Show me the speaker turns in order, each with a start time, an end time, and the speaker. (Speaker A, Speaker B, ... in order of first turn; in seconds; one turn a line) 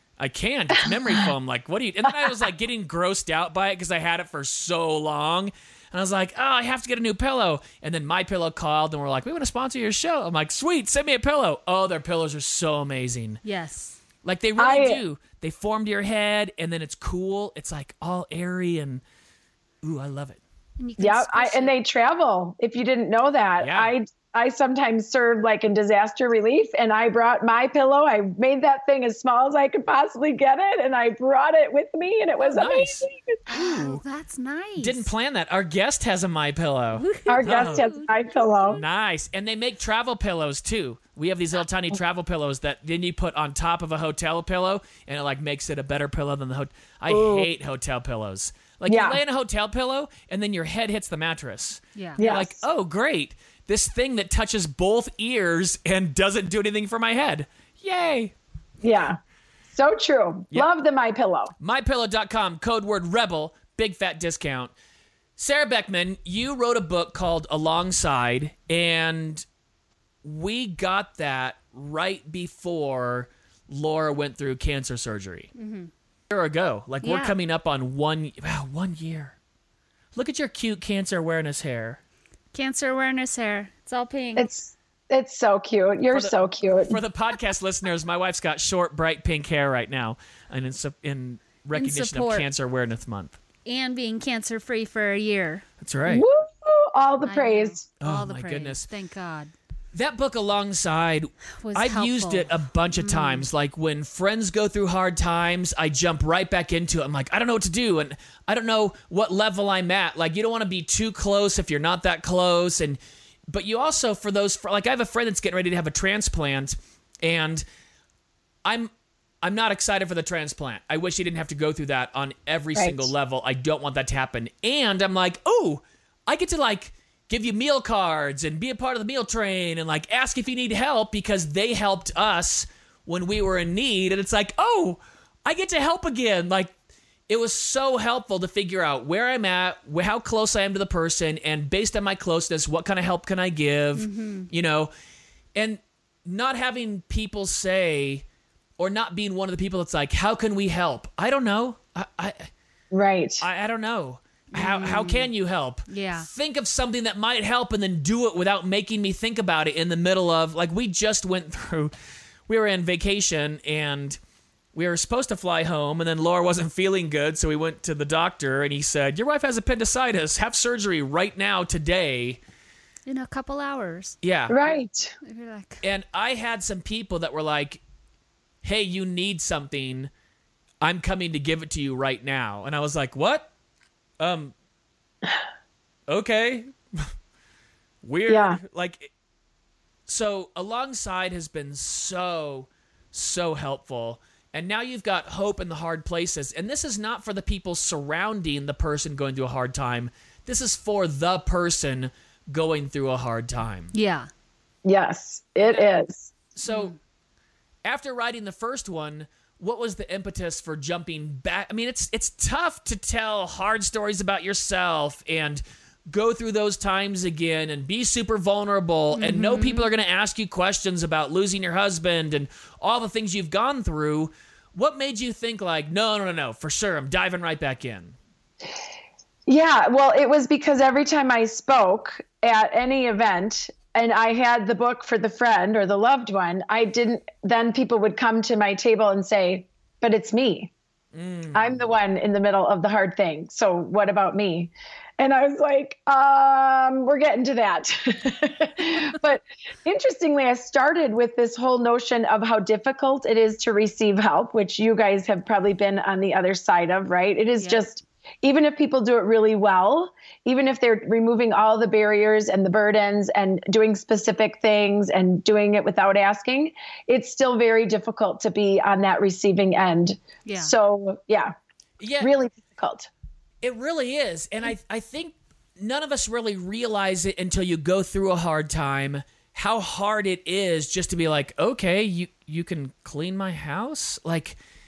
Speaker A: 0.2-13.4
Speaker B: 13.4-14.0
Speaker A: 14.2-19.0
Speaker C: 14.6-15.0
Speaker A: 19.8-20.4
Speaker B: 20.8-21.7
Speaker C: 21.0-33.4
Speaker A: 23.6-23.9
Speaker A: 32.5-32.9
Speaker B: 33.5-35.1
Speaker A: 33.5-34.0
Speaker A: 34.8-37.9
Speaker B: 36.9-38.8
Speaker C: 37.3-38.8
Speaker A: 38.7-58.3
Speaker C: 47.1-47.5
Speaker C: 48.9-49.2
Speaker B: 51.9-52.2
Speaker C: 52.2-52.6
Speaker C: 58.8-59.2
Speaker C: 59.7-61.5
Speaker A: 61.6-64.7
Speaker A: 65.4-69.4
Speaker A: 70.2-75.5
Speaker B: 75.5-75.9
Speaker A: 76.3-79.3
Speaker B: 77.0-77.3
Speaker A: 80.1-82.0
Speaker B: 82.5-84.5
Speaker C: 84.3-87.0
Speaker A: 86.1-93.4
Speaker B: 91.7-92.5
Speaker B: 93.7-95.7
Speaker A: 95.8-96.2
Speaker C: 96.0-97.8
Speaker B: 97.2-99.5
Speaker A: 98.0-98.9
Speaker A: 99.9-117.6
Speaker B: 101.6-103.5
Speaker A: 118.6-118.9
Speaker A: 119.4-136.7
Speaker C: 122.7-123.1
Speaker A: 137.3-144.9
Speaker B: 143.9-144.5
Speaker A: 145.6-148.2
Speaker A: 148.8-152.5
Speaker C: 152.9-153.4
Speaker A: 153.4-161.9
Speaker B: 154.5-155.3
Speaker B: 155.9-156.3
Speaker A: 162.5-164.2
Speaker A: 164.7-172.4
Speaker B: 173.1-174.2
Speaker A: 174.2-174.6
Speaker C: 174.5-175.1
Speaker B: 175.2-175.8
Speaker A: 175.8-177.8
Speaker A: 178.6-180.1
Speaker A: 180.8-183.5
Speaker A: 184.2-184.5
Speaker A: 186.1-187.1
Speaker A: 188.0-189.1
Speaker C: 188.3-188.6
Speaker A: 190.1-203.9
Speaker B: 203.9-204.3
Speaker C: 204.8-206.3
Speaker A: 205.6-205.9
Speaker A: 206.5-206.9
Speaker B: 206.7-206.9
Speaker A: 207.8-228.2
Speaker B: 219.1-219.9
Speaker C: 229.5-240.7
Speaker A: 241.1-241.9
Speaker C: 241.5-271.5
Speaker B: 270.4-270.7
Speaker A: 272.0-272.3
Speaker C: 272.2-273.1
Speaker A: 273.6-284.6